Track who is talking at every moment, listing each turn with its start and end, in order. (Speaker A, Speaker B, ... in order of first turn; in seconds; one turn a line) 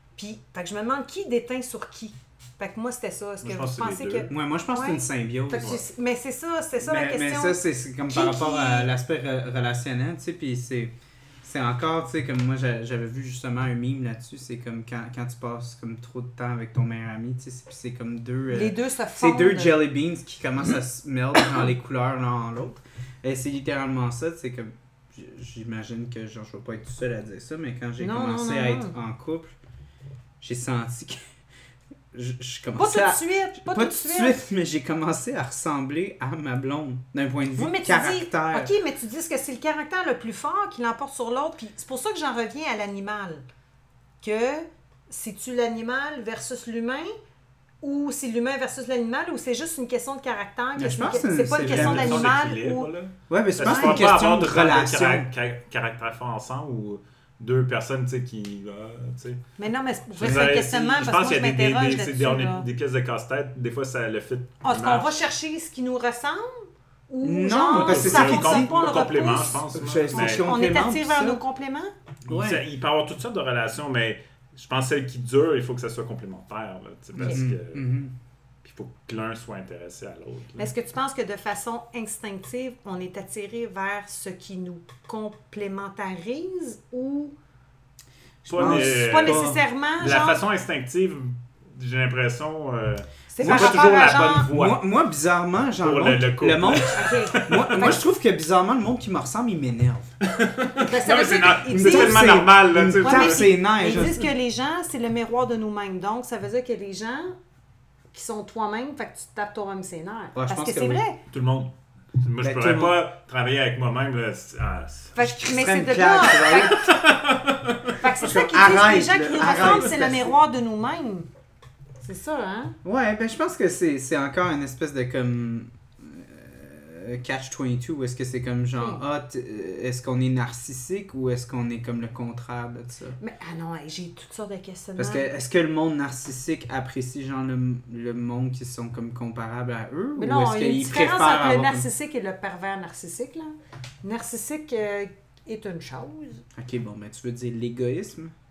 Speaker A: 0.2-8.9
Speaker B: 3.4-4.3
Speaker C: 4.3-5.8
Speaker C: 6.8-29.6
Speaker A: 18.5-19.9
Speaker A: 28.0-28.9
Speaker C: 30.4-31.2
Speaker C: 32.1-38.7
Speaker A: 32.8-34.4
Speaker A: 37.6-43.5
Speaker A: 44.2-47.1
Speaker A: 47.8-52.9
Speaker C: 50.8-52.4
Speaker B: 51.6-59.4
Speaker C: 53.3-55.3
Speaker A: 53.6-54.0
Speaker A: 59.6-62.6
Speaker B: 60.1-65.2
Speaker A: 64.6-71.9
Speaker C: 67.2-68.8
Speaker B: 67.7-70.5
Speaker C: 69.7-71.4
Speaker B: 72.3-77.9
Speaker C: 72.3-72.6
Speaker C: 77.2-78.1
Speaker B: 78.6-80.7
Speaker A: 80.6-87.4
Speaker B: 88.5-94.8
Speaker A: 88.5-90.4
Speaker C: 88.5-89.6
Speaker A: 93.3-94.5
Speaker C: 93.4-100.1
Speaker B: 95.8-97.8
Speaker A: 96.9-98.0
Speaker B: 100.2-103.5
Speaker A: 100.8-102.4
Speaker C: 101.7-104.2
Speaker A: 103.0-107.4
Speaker A: 108.1-111.2
Speaker C: 110.3-111.0
Speaker B: 111.3-115.2
Speaker C: 112.4-113.0
Speaker A: 115.2-116.9
Speaker C: 115.2-116.9
Speaker B: 116.7-118.0
Speaker A: 118.0-121.3
Speaker C: 118.2-120.4
Speaker A: 122.0-122.8
Speaker C: 122.8-133.2
Speaker A: 128.8-129.0
Speaker A: 133.2-135.3
Speaker C: 135.0-141.9
Speaker A: 140.2-146.4
Speaker C: 146.6-148.3